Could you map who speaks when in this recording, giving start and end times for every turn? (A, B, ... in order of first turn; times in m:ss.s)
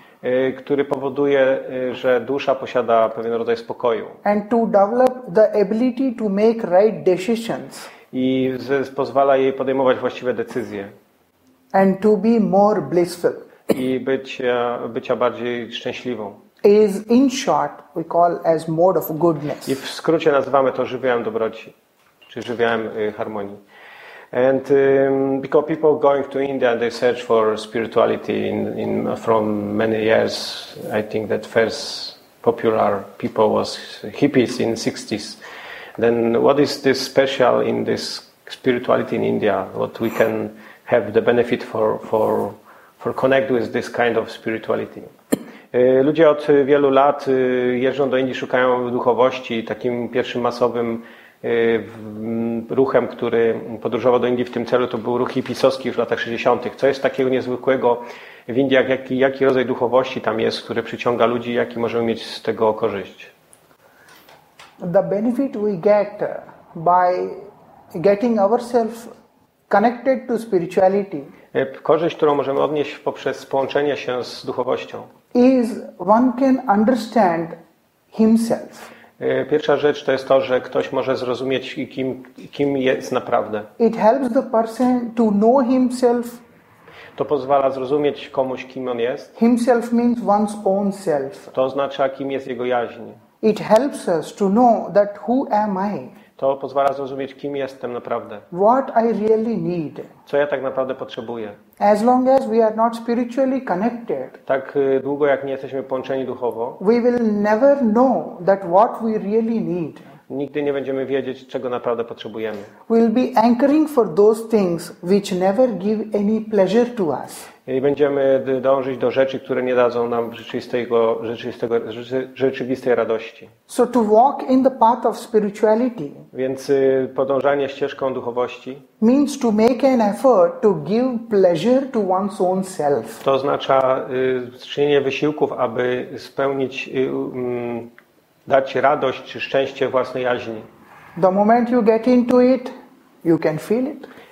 0:00.2-0:04.2 A
0:04.2-0:07.9 B
0:08.1-0:10.9 A
0:11.7-0:13.5 B
0:13.7-0:16.4 A
0:16.6-0:19.8 B
0:19.6-0:21.7 A
0:22.3-0:23.6 A
0:24.3-0:35.4 A
0:36.0-0:45.1 A
0:45.7-1:03.3 A
1:04.8-1:09.1 B
1:09.7-1:11.3 B
1:11.5-1:15.1 A
1:15.3-1:17.6 B
1:18.1-1:18.9 B
1:19.2-1:23.7 A
1:23.8-1:26.4 B
1:27.2-1:29.3 A
1:29.4-1:31.5 B
1:31.5-1:33.2 A
1:33.4-1:36.2 B
1:36.4-1:38.5 A
1:38.5-1:40.1 B
1:40.3-1:41.6 A
1:41.8-1:44.4 B
1:44.5-1:46.8 A
1:46.8-1:50.1 B
1:50.3-1:52.7 A
1:52.9-1:57.5 B
1:57.7-2:03.5 A
2:03.7-2:06.3 B
2:06.3-2:08.8 A
2:09.0-2:13.2 B
2:13.2-2:17.9 A
2:18.5-2:20.7 A
2:21.2-2:22.7 B
2:23.2-2:24.1 B